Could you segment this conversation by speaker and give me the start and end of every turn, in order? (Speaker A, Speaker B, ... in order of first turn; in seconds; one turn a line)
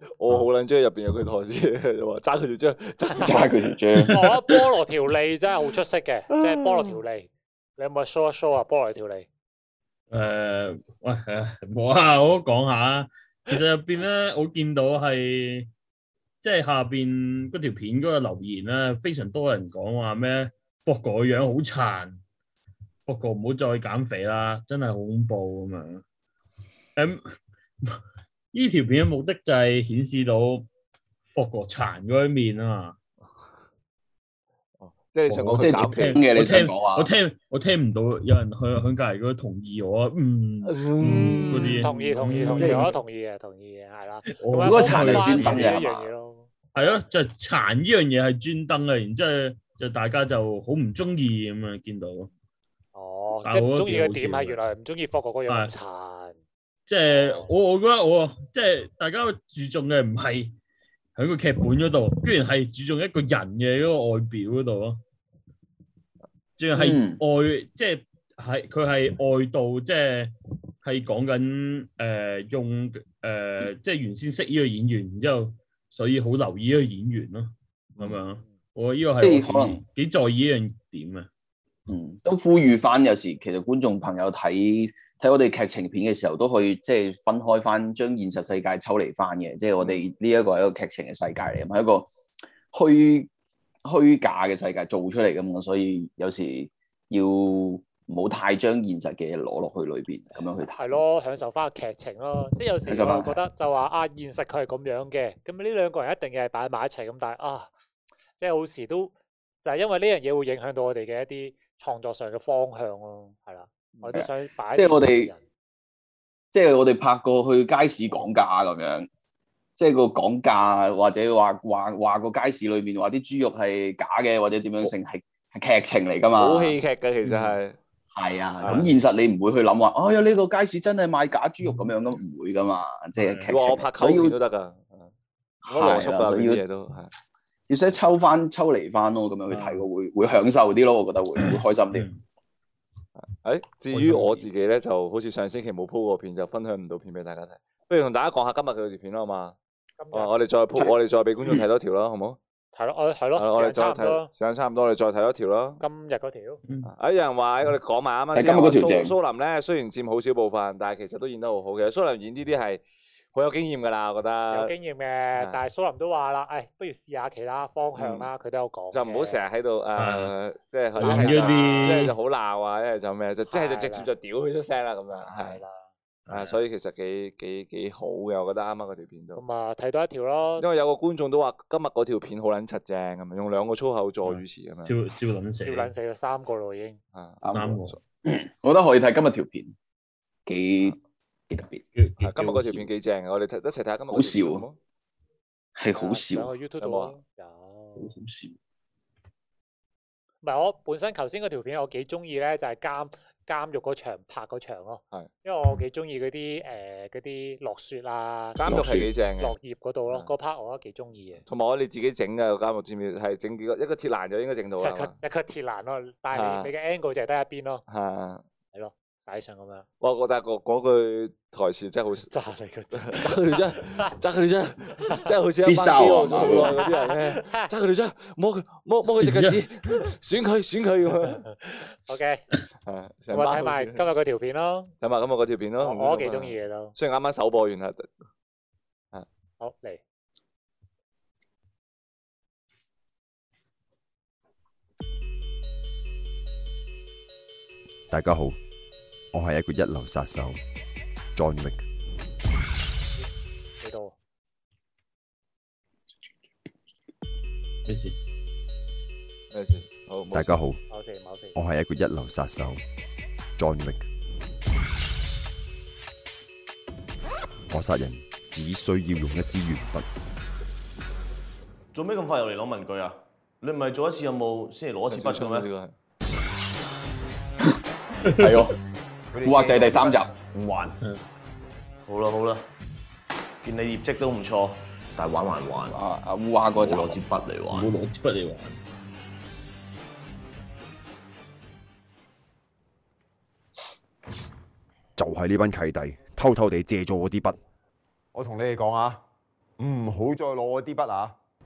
Speaker A: 0.2-3.5
Speaker B: 3.1-4.4
Speaker C: 4.0-9.3
Speaker D: 10.1-15.7
Speaker D: 16.4-22.2
Speaker D: 23.1-26.0
Speaker D: 27.0-27.3
Speaker D: 28.5-30.7
Speaker D: 31.3-33.0
Speaker A: 34.8-36.3
Speaker D: 35.3-42.9
Speaker B: 35.5-37.1
Speaker A: 40.7-41.9
Speaker C: 41.5-47.0
Speaker D: 44.3-45.8
Speaker B: 44.6-46.1
Speaker D: 46.8-52.3
Speaker C: 52.9-56.4
Speaker D: 53.5-54.6
Speaker D: 56.9-60.5
Speaker C: 57.0-57.5
Speaker D: 61.2-65.0
Speaker D: 66.6-81.3
Speaker B: 66.7-67.2
Speaker A: 78.0-78.2
Speaker B: 79.2-79.8
Speaker B: 81.9-92.1
Speaker B: 92.7-93.3
Speaker B: 93.9-101.0
Speaker C: 100.8-107.7
Speaker B: 102.9-103.4
Speaker C: 108.4-109.1
Speaker C: 109.6-115.4
Speaker B: 114.1-115.3
Speaker B: 116.5-119.1
Speaker B: 119.8-127.5
Speaker A: 126.3-127.8
Speaker B: 128.1-134.4
Speaker A: 128.6-128.9
Speaker D: 133.2-133.5
Speaker A: 133.5-135.1
Speaker B: 135.7-136.7
Speaker A: 135.7-137.1
Speaker B: 137.7-142.1
Speaker D: 139.5-139.8
Speaker D: 141.9-142.2
Speaker A: 143.2-149.6
Speaker D: 143.9-144.4
Speaker C: 150.0-150.3
Speaker A: 150.1-152.4
Speaker C: 152.7-154.3
Speaker A: 153.4-155.8
Speaker C: 155.8-156.6
Speaker A: 156.8-162.8
Speaker B: 158.3-159.1
Speaker A: 163.3-164.7
Speaker C: 164.5-169.4
Speaker A: 168.0-168.3
Speaker A: 168.9-175.6
Speaker D: 170.0-170.3
Speaker D: 171.0-172.2
Speaker C: 171.0-172.1
Speaker C: 173.5-174.1
Speaker C: 175.1-175.9
Speaker D: 176.3-176.6
Speaker A: 176.3-179.4
Speaker C: 179.3-180.7
Speaker A: 180.6-184.9
Speaker D: 184.3-185.9
Speaker C: 185.7-187.0
Speaker A: 187.1-188.0
Speaker B: 187.4-189.8
Speaker D: 187.5-187.9
Speaker B: 190.5-191.0
Speaker B: 191.5-191.8
Speaker D: 192.0-192.9
Speaker A: 192.2-194.8
Speaker B: 194.1-194.6
Speaker B: 195.8-196.5
Speaker C: 195.9-198.1
Speaker A: 196.8-197.1
Speaker D: 198.1-198.5
Speaker C: 200.4-208.8
Speaker A: 208.6-209.6
Speaker B: 208.7-209.1
Speaker C: 209.4-211.4
Speaker A: 211.5-215.2
Speaker C: 214.8-217.8
Speaker A: 216.3-216.7
Speaker A: 217.9-218.4
Speaker C: 218.7-219.9
Speaker A: 220.0-222.3
Speaker C: 222.3-224.1
Speaker A: 222.9-231.4
Speaker B: 225.6-226.8
Speaker C: 226.5-227.7
Speaker D: 229.2-229.6
Speaker C: 231.4-232.5
Speaker A: 232.9-234.1
Speaker C: 233.3-234.9
Speaker A: 235.0-238.2
Speaker C: 235.8-236.9
Speaker C: 239.6-240.0
Speaker E: 248.1-248.6
Speaker E: 249.3-250.6
Speaker E: 251.3-251.8
Speaker C: 253.8-254.2
Speaker D: 257.9-258.2
Speaker A: 259.5-260.6
Speaker E: 260.3-260.8
Speaker C: 260.9-261.6
Speaker E: 261.6-262.8
Speaker E: 263.6-264.1
Speaker E: 267.7-270.1
Speaker F: 271.9-275.7
Speaker A: 275.1-275.9
Speaker B: 278.2-278.8
Speaker G: 279.3-281.0
Speaker B: 279.4-280.3
Speaker F: 282.1-282.6
Speaker F: 283.6-286.0
Speaker B: 285.9-287.2
Speaker F: 286.8-287.9
Speaker D: 287.7-288.8
Speaker E: 295.2-297.6
Speaker G: 298.3-299.2
Speaker G: 299.8-301.4